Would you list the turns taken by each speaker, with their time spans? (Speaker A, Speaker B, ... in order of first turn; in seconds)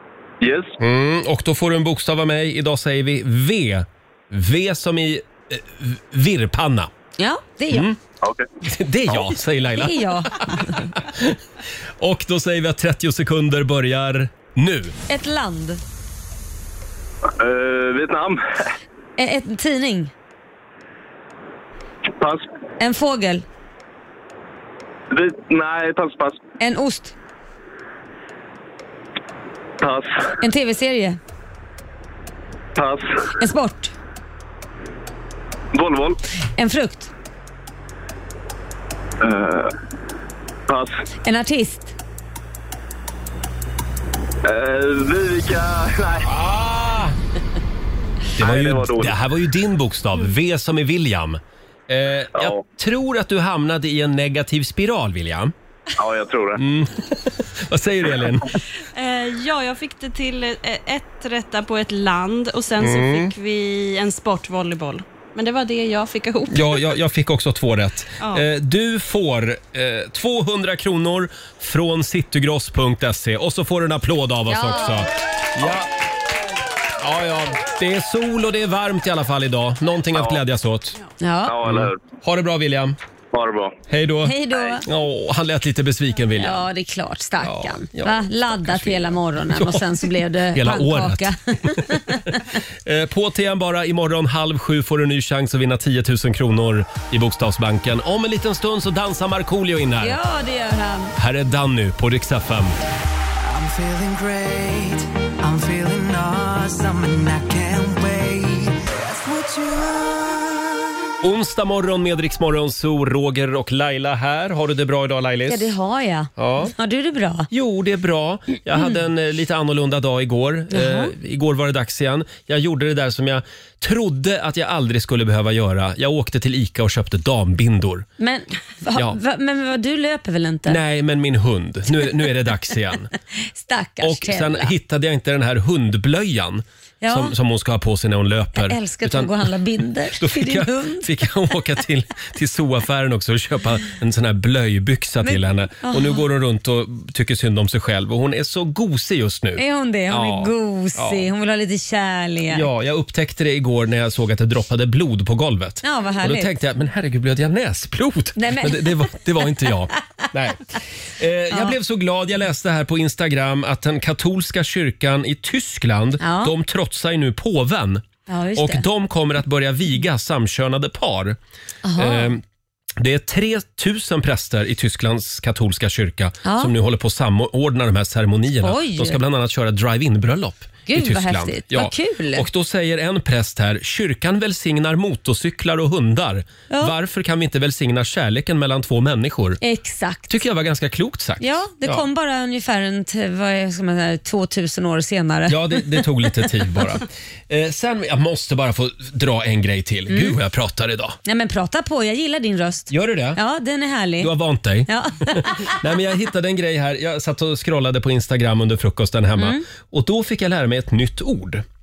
Speaker A: 0.4-0.8, 8.2-8.5, 17.4-18.4, 22.2-22.5, 25.1-26.4, 29.8-30.3, 32.8-33.2, 35.7-36.2, 39.2-39.7, 40.7-41.0, 44.5-46.3, 48.4-49.2, 52.4-52.6, 56.0-56.6, 80.1-80.4, 81.5-82.0, 83.3-83.8
Speaker B: 0.8-6.9, 7.7-8.0, 8.6-11.4, 12.0-14.9, 46.3-47.2, 48.4-55.5, 56.6-58.5, 62.8-63.3, 66.5-75.9, 77.0-81.0, 81.6-83.0, 83.9-86.7, 87.4-100.2, 101.2-102.8, 111.2-115.7, 116.4-116.7, 117.5-128.1, 130.7-133.1, 134.0-139.5, 140.2-151.3, 152.5-168.0, 168.6-171.4, 172.0-172.4, 173.0-189.6, 190.3-192.1, 195.5-201.2, 202.9-203.4, 204.2-211.6
Speaker C: 7.2-7.9, 9.8-10.5, 15.1-15.8, 19.2-20.1, 22.8-23.4, 26.6-27.1, 30.4-31.2, 33.4-33.9, 36.6-37.1, 41.2-41.9, 74.5-75.1, 81.2-81.6, 84.2-84.8, 86.4-92.4, 100.0-101.2, 115.5-117.5, 120.7-121.1, 128.2-130.8, 133.6-134.7, 137.0-137.3, 138.6-141.0, 145.2-146.2, 149.6-152.6, 155.8-156.5, 158.4-158.9, 166.2-166.5, 168.3-168.8, 171.8-172.3, 176.4-176.7, 178.6-179.2, 180.9-182.4, 189.6-190.4, 191.4-196.1, 200.1-200.4, 201.2-204.3, 204.9-205.7
Speaker D: 58.9-66.8, 68.2-68.5
Speaker E: 103.4-108.9, 109.6-110.1